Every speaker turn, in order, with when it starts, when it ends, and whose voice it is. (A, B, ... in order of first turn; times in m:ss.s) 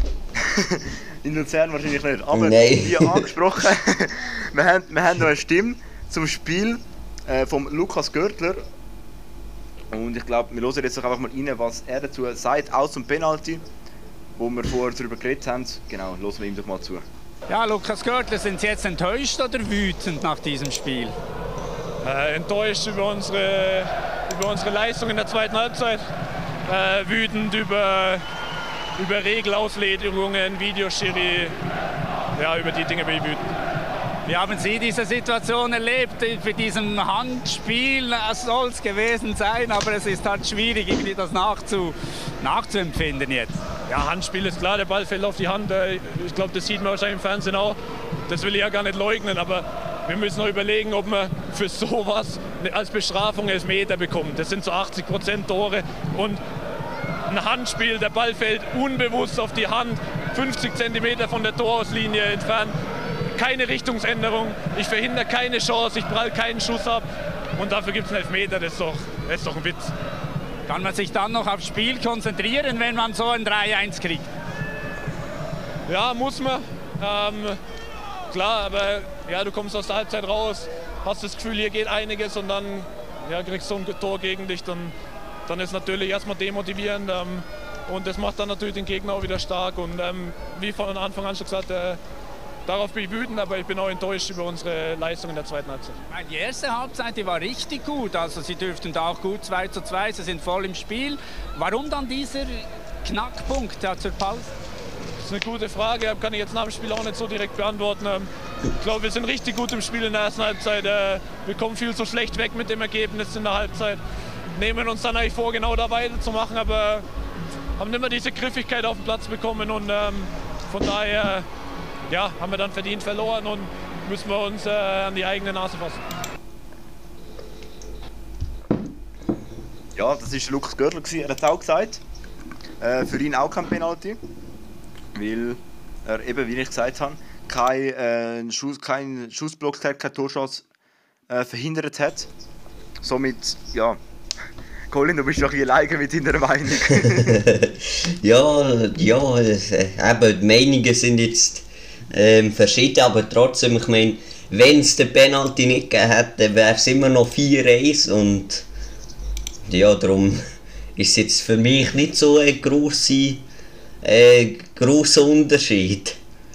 0:00.4-0:08.6 A
0:02.3-0:03.2 B
0:09.9-0:13.6 A
0:14.4-0:17.0 A
0:17.5-0:21.2 C
0:22.0-0:26.0 D
0:26.7-0:28.2 D
0:29.0-0:31.6 D
0:32.4-0:33.5 D
0:34.3-0:43.6 C
0:43.9-0:47.8 D
0:48.3-0:56.4 D
0:57.3-1:02.8 D
1:03.4-1:09.9 D
1:10.7-1:14.3 C
1:15.9-1:17.6 D
1:18.3-1:25.0 D
1:25.5-1:32.0 D
1:32.7-1:36.0 D
1:36.1-1:44.5 C
1:45.2-1:54.0 D
1:54.5-1:57.1 D
1:57.8-2:01.5 D
2:02.1-2:06.0 D
2:10.0-2:12.0 A
2:12.8-2:14.2 A
2:15.2-2:20.6 A
2:21.3-2:22.3 A
2:23.0-2:24.0 A
2:24.9-2:27.4 A
2:27.4-2:27.7 B
2:28.2-2:38.6 B
2:39.7-2:40.4 B
2:41.0-2:43.4 B
2:44.0-2:46.2 B